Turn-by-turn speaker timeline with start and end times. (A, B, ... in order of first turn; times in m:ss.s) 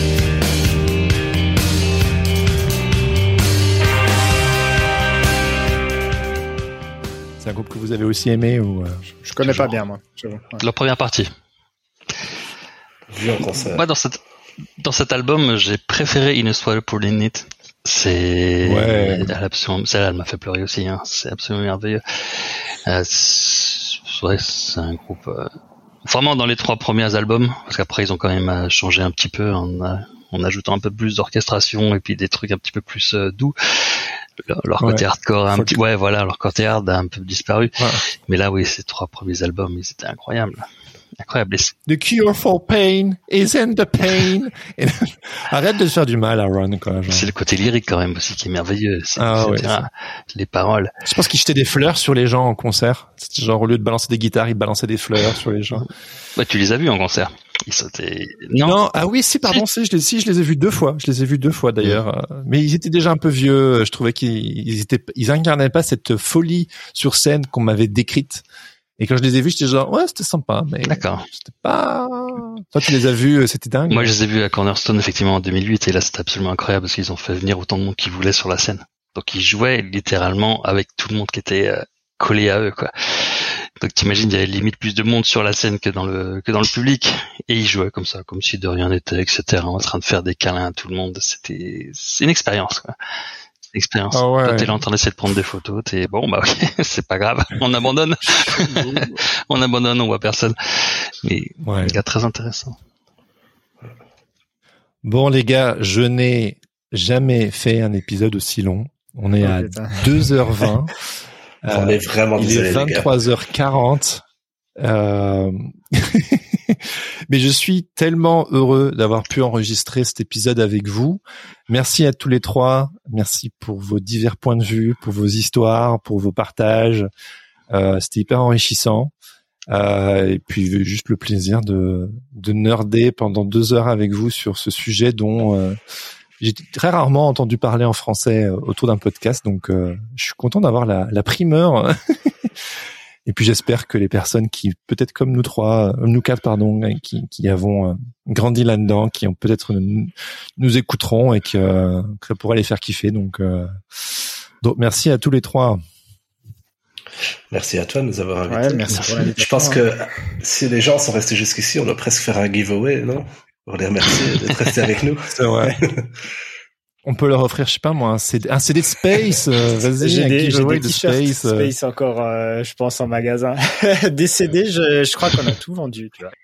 0:07.4-0:09.8 A
0:09.2-0:10.6 B
0:10.6-0:11.3 C
0:13.1-0:13.8 D
0:13.5-0:14.2 C
0:14.8-0:25.5 C
0:18.6-0:19.3 A
0:26.1-0:37.8 C
0:34.8-0:35.8 A
0:37.8-0:38.0 A
0:38.3-0:40.7 C
0:41.2-0:41.8 C
0:41.9-0:47.3 A
0:47.1-0:50.9 C
0:49.2-0:49.9 A
0:51.0-0:55.9 A
0:56.4-0:58.8 C
0:58.6-1:08.4 A
1:09.0-1:14.1 A
1:10.9-1:11.3 C
1:13.9-1:33.0 C
1:33.7-1:42.8 C
1:34.1-1:34.8 A
1:38.2-1:39.2 A
1:41.6-1:42.0 A
1:45.0-1:51.0 A
1:49.4-1:50.1 B
1:51.6-1:54.2 A
1:51.7-1:53.1 D
1:54.8-2:07.1 A
2:07.7-2:09.1 A
2:09.7-2:15.8 A
2:16.4-2:22.5 A
2:23.3-2:35.8 A
2:37.5-2:46.2 D
2:38.5-2:39.8 B
2:38.9-2:39.3 C
2:45.3-2:45.8 A
2:47.0-2:51.7 A
2:50.0-2:56.3 B